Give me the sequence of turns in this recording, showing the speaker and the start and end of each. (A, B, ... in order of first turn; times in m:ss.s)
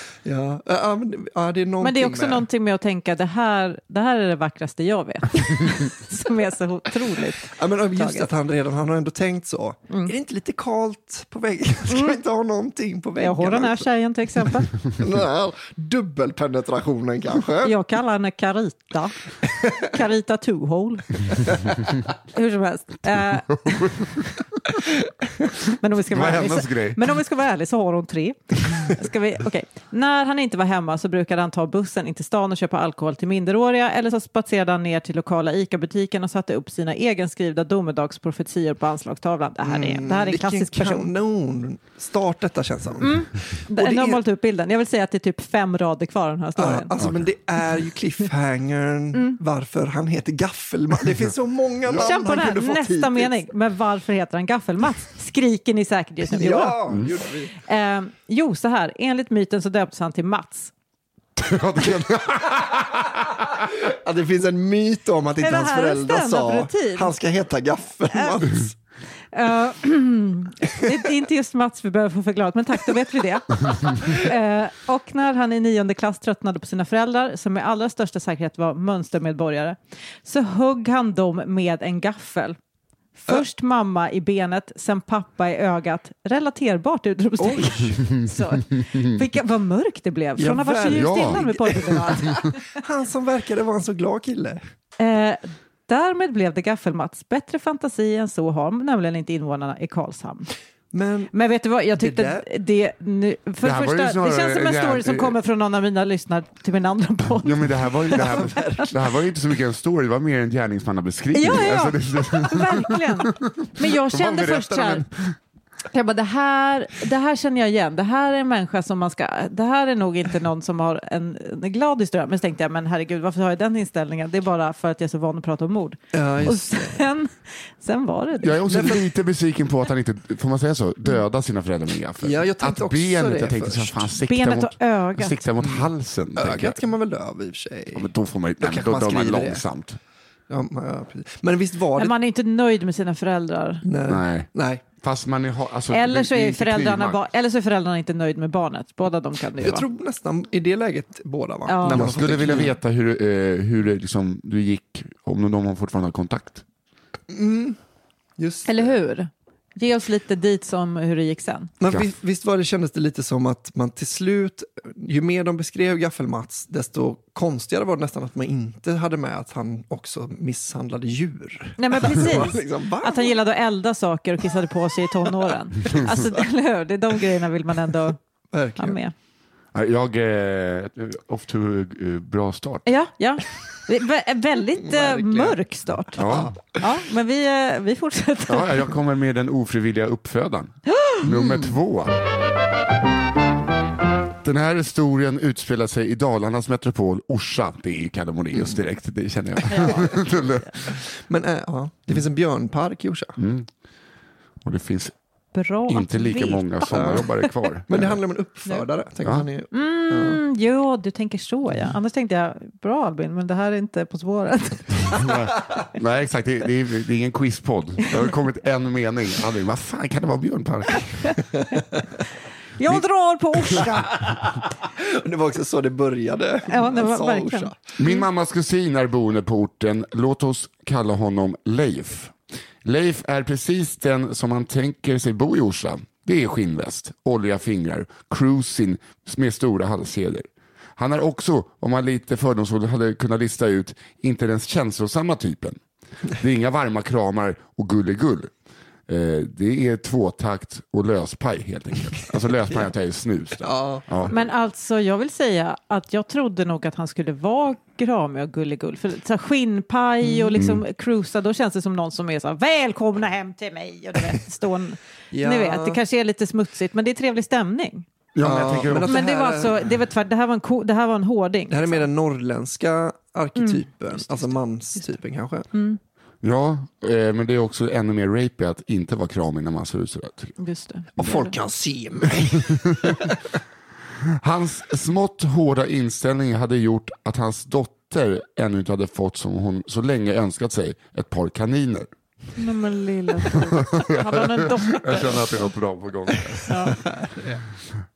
0:00.2-0:02.5 A
0:01.8-0:08.3 B
0:07.4-0:13.9 A
0:11.9-0:12.2 B
0:13.2-0:14.7 B
0:14.4-0:17.8 A
0:17.6-0:24.3 B
0:23.6-0:24.1 C
0:25.7-0:41.1 B
0:26.1-0:27.0 C
0:39.6-0:44.2 A
0:43.0-0:47.0 B
0:46.6-0:53.4 A
0:47.0-0:47.2 C
0:49.1-0:49.4 B
0:51.9-0:56.9 B
0:56.3-0:57.6 A
0:56.9-0:57.1 C
0:57.6-1:00.7 B
1:01.4-1:03.6 C
1:03.7-1:08.8 A
1:05.4-1:07.1 B
1:08.1-1:08.4 B
1:09.3-1:22.6 B
1:23.2-1:32.6 B
1:27.8-1:29.1 C
1:30.4-1:34.6 A
1:30.9-1:31.4 C
1:35.0-1:40.5 B
1:40.9-1:41.3 A
1:41.3-1:48.9 B
1:42.0-1:42.5 A
1:43.6-1:45.4 C
1:47.4-1:55.2 C
1:48.1-1:48.9 A
1:51.3-1:55.0 B
1:55.9-2:09.0 B
2:06.1-2:07.0 A
2:08.4-2:16.8 C
2:08.7-2:09.0 A
2:12.2-2:14.1 A
2:14.2-2:15.4 B
2:15.6-2:18.1 A
2:18.0-2:20.0 C
2:18.6-2:19.6 A
2:20.5-2:22.1 A
2:22.0-2:23.8 B
2:23.8-2:24.8 A
2:24.1-2:24.5 C
2:25.0-2:27.2 C
2:25.9-2:29.8 B
2:29.6-2:32.8 A
2:31.6-2:32.1 B
2:31.8-2:36.6 C
2:37.3-2:37.8 A
2:38.4-2:38.9 A
2:38.6-2:41.7 B
2:41.8-2:53.4 A
2:51.8-2:58.2 B
2:58.5-2:59.0 A
2:58.8-2:59.1 B
2:59.7-3:02.9 C
3:02.9-3:08.9 B
3:04.8-3:05.6 A
3:06.1-3:06.6 A
3:06.2-3:06.5 C
3:08.5-3:12.1 C
3:10.9-3:11.2 B
3:11.2-3:11.8 A
3:14.4-3:21.0 C
3:19.7-3:20.8 B
3:19.8-3:20.2 A
3:20.9-3:23.4 A
3:23.4-3:23.7 C
3:24.6-3:25.1 C
3:25.5-3:27.5 B
3:25.9-3:28.2 C
3:26.9-3:27.2 A
3:27.9-3:30.4 A
3:29.7-3:35.3 B
3:35.0-3:41.5 C
3:42.8-3:44.2 B
3:43.8-3:47.8 A
3:46.7-3:48.2 B
3:48.0-4:00.4 C
4:01.0-4:08.5 C
4:09.1-4:14.4 C
4:13.6-4:14.1 A
4:14.3-4:28.1 B
4:20.2-4:20.6 A
4:20.6-4:20.8 C
4:25.3-4:26.0 A
4:28.3-4:29.2 C
4:28.4-4:29.9 A
4:29.0-4:32.1 B
4:31.7-4:35.7 A
4:33.6-4:34.5 B
4:35.7-4:36.0 B
4:36.4-4:40.6 C
4:40.6-4:41.6 B
4:41.2-4:43.4 A
4:42.3-4:43.4 C
4:44.4-4:52.1 C
4:52.6-4:55.5 B
4:53.5-4:57.0 C
4:56.7-4:57.0 B
4:57.0-4:57.6 A